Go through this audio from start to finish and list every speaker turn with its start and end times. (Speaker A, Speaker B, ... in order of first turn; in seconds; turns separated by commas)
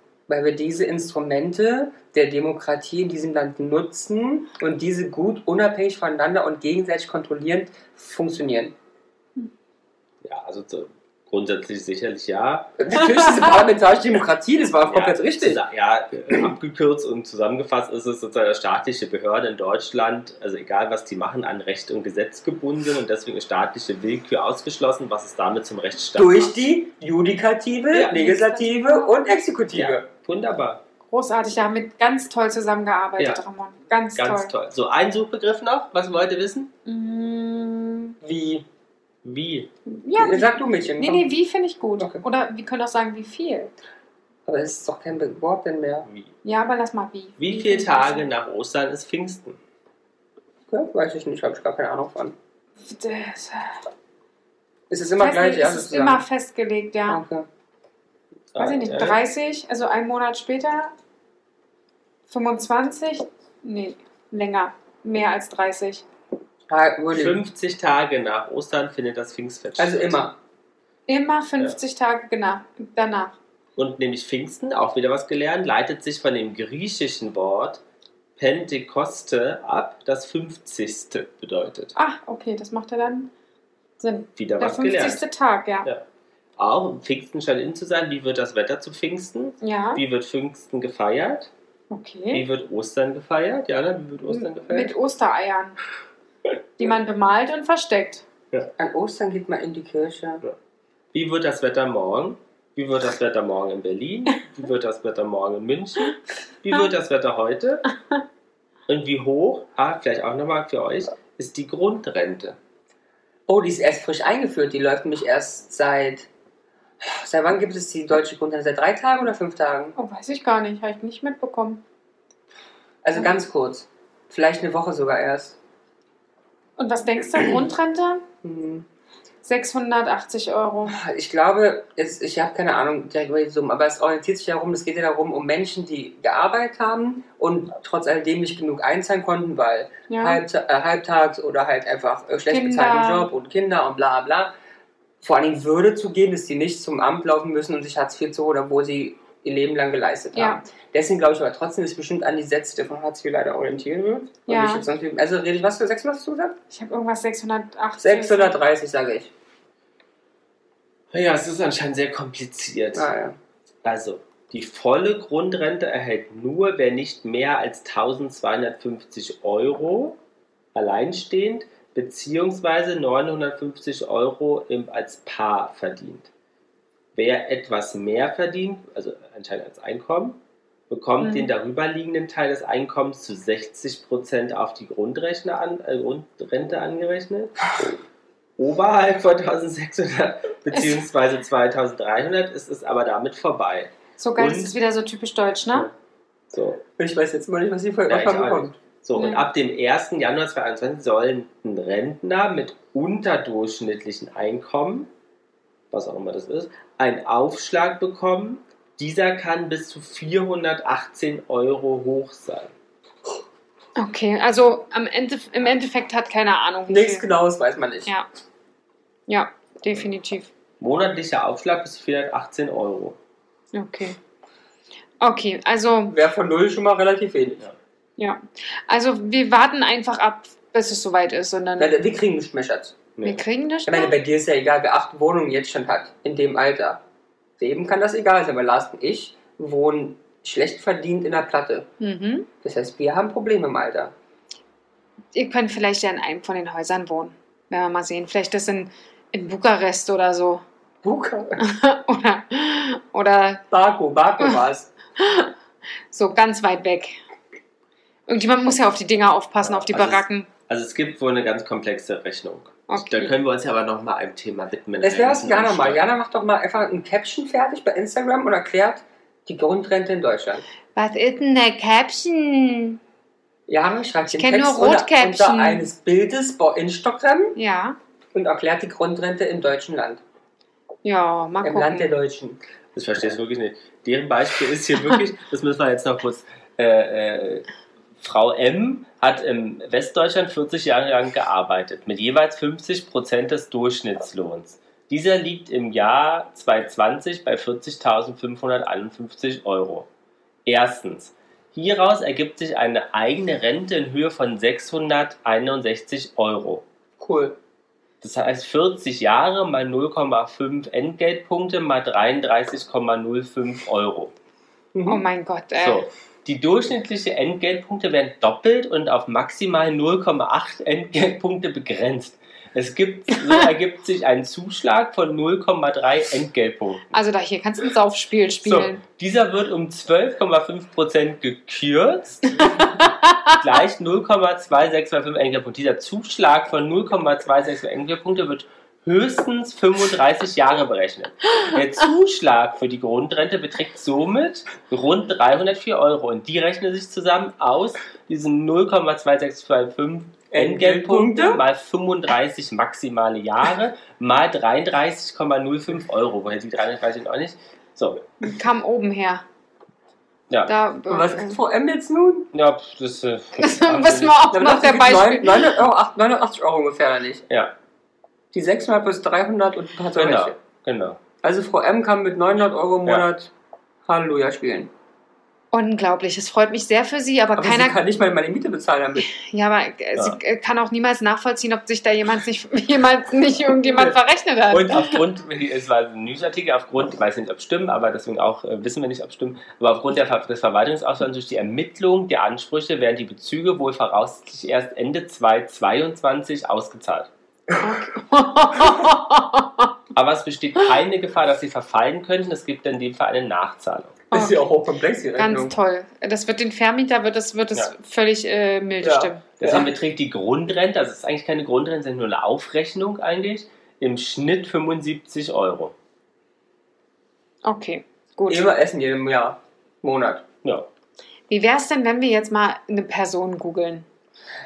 Speaker A: 0.3-8.8, Speaker B: 10.2-12.8, Speaker A: 12.8-15.6, Speaker B: 14.8-26.5, Speaker A: 26.2-30.1, Speaker C: 28.1-29.1, Speaker B: 29.7-30.8, Speaker C: 31.1-34.5, Speaker B: 34.2-36.7, Speaker C: 36.9-38.2, Speaker A: 38.2-38.7, Speaker B: 39.2-39.7, Speaker C: 39.9-43.7, Speaker A: 40.2-41.2, Speaker A: 42.0-42.2, Speaker A: 44.5-46.1, Speaker B: 46.1-46.3, Speaker C: 46.4-48.3, Speaker B: 47.4-49.6, Speaker A: 50.7-52.4, Speaker C: 52.8-53.8, Speaker A: 54.9-56.2, Speaker C: 55.2-57.2, Speaker A: 57.1-57.5, Speaker B: 58.5-59.2, Speaker C: 58.6-60.9, Speaker C: 62.3-66.0, Speaker A: 66.7-67.4, Speaker B: 67.1-70.2, Speaker A: 69.8-70.3, Speaker C: 71.1-73.4, Speaker B: 73.8-77.8, Speaker B: 78.4-82.0, Speaker C: 82.0-83.3, Speaker C: 84.0-85.9, Speaker B: 84.4-85.2, Speaker B: 86.6-91.5, Speaker C: 89.6-90.0, Speaker C: 91.9-92.5, Speaker B: 92.3-95.0, Speaker C: 94.3-95.8, Speaker C: 96.8-98.2, Speaker A: 98.8-100.4, Speaker B: 101.1-107.8, Speaker B: 108.9-112.6, Speaker A: 113.5-116.3, Speaker A: 117.0-120.0, Speaker C: 120.0-121.8, Speaker A: 123.0-125.6, Speaker C: 126.8-128.2, Speaker A: 128.4-128.8, Speaker C: 129.4-131.0, Speaker A: 130.9-144.5, Speaker C: 140.1-140.4, Speaker C: 142.5-143.3, Speaker A: 145.2-156.6, Speaker C: 150.3-150.6, Speaker C: 154.5-154.8, Speaker C: 156.7-158.6, Speaker A: 158.0-159.3, Speaker B: 161.1-163.1, Speaker A: 162.9-163.4, Speaker B: 163.8-170.2, Speaker B: 170.8-176.3, Speaker B: 177.2-180.4, Speaker B: 180.9-188.0, Speaker C: 181.2-181.5, Speaker B: 188.6-194.8, Speaker C: 190.7-191.0, Speaker C: 194.2-195.9, Speaker B: 196.5-196.8, Speaker A: 197.0-198.8, Speaker B: 198.1-205.1, Speaker C: 199.2-199.5, Speaker B: 205.9-212.7, Speaker C: 214.0-217.3, Speaker A: 216.9-218.1, Speaker C: 219.3-220.5, Speaker B: 220.8-223.2, Speaker C: 223.7-224.2, Speaker C: 225.2-226.2, Speaker A: 226.1-227.6, Speaker C: 228.2-231.9, Speaker A: 231.8-233.0, Speaker C: 233.2-234.2, Speaker A: 233.9-237.0, Speaker A: 237.6-241.9, Speaker C: 242.0-242.5, Speaker A: 242.6-244.1, Speaker C: 245.3-250.6, Speaker A: 251.0-251.6, Speaker C: 251.6-253.6, Speaker A: 253.7-254.9, Speaker C: 255.2-255.6, Speaker C: 256.1-257.2, Speaker C: 258.3-260.5, Speaker B: 259.6-266.1, Speaker C: 262.9-263.4, Speaker A: 265.0-270.6, Speaker C: 270.9-273.0, Speaker A: 273.7-277.6, Speaker C: 274.3-275.9, Speaker C: 277.6-278.0, Speaker A: 278.3-280.2, Speaker C: 281.1-282.1, Speaker A: 281.6-282.6, Speaker B: 282.9-287.7, Speaker B: 288.2-300.1, Speaker B: 300.7-306.9, Speaker A: 307.2-307.6, Speaker B: 308.2-314.3, Speaker A: 314.9-315.2, Speaker C: 315.1-316.0, Speaker B: 315.8-327.2, Speaker C: 327.1-329.0, Speaker B: 328.6-332.9, Speaker C: 332.6-333.6, Speaker B: 333.5-358.3, Speaker A: 350.5-351.6, Speaker C: 358.4-359.4, Speaker C: 360.7-361.6, Speaker A: 361.1-362.5, Speaker B: 362.5-364.4, Speaker C: 363.6-365.7, Speaker A: 364.5-367.4, Speaker B: 367.5-367.8, Speaker A: 368.5-370.6, Speaker B: 370.1-371.2, Speaker A: 371.4-373.5, Speaker A: 374.1-374.9, Speaker C: 375.7-378.0, Speaker A: 377.6-379.3, Speaker C: 379.2-385.2, Speaker B: 384.7-397.3, Speaker C: 397.8-399.9, Speaker B: 400.1-404.2, Speaker C: 404.3-404.6, Speaker A: 404.3-405.7, Speaker C: 405.4-409.4, Speaker A: 409.0-409.9, Speaker B: 409.6-415.9, Speaker C: 417.6-418.7, Speaker A: 418.5-420.4, Speaker C: 421.5-424.1